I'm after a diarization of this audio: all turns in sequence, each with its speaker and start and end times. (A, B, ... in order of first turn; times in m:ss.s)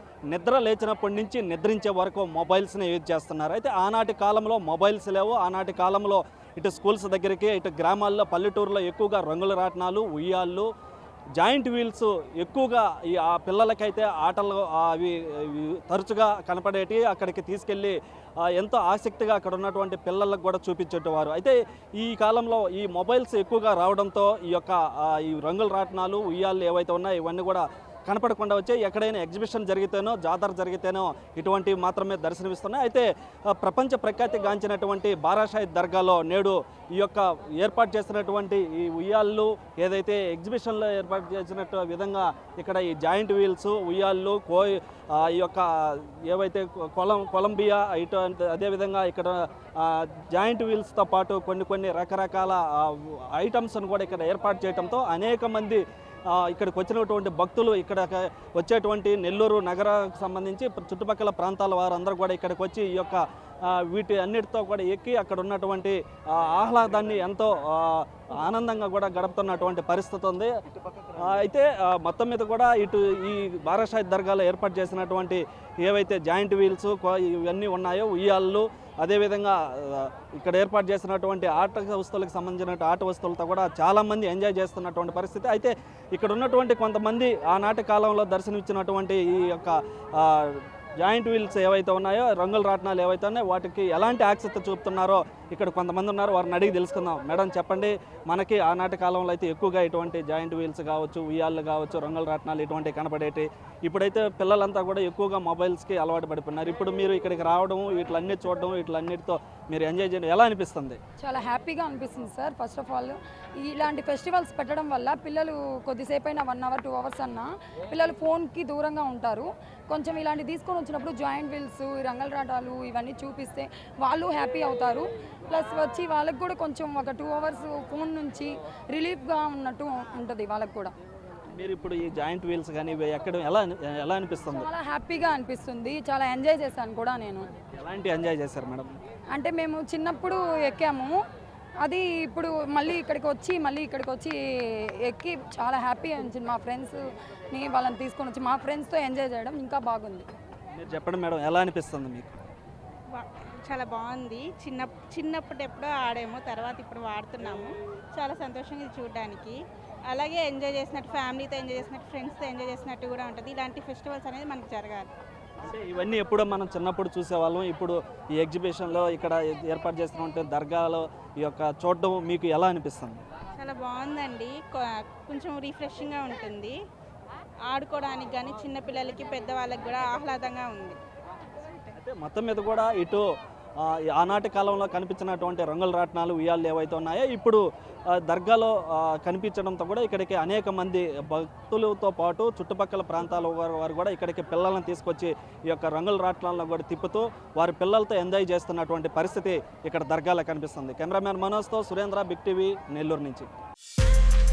0:00.3-0:10.7 A
0:11.4-1:10.5 A
1:11.1-1:51.0 A
1:51.2-2:10.9 B
2:11.5-2:14.7 A
2:14.5-2:17.5 B
2:17.8-2:18.9 A
2:19.3-2:21.2 B
2:21.8-2:24.4 B
2:25.0-2:27.0 B
2:27.5-2:30.3 B
2:30.8-2:32.4 A
2:33.1-2:39.6 C
2:40.1-2:45.1 C
2:45.6-2:53.2 A
2:53.6-2:56.8 C
2:57.7-3:01.0 C
3:02.0-3:03.2 A
3:03.8-3:23.5 A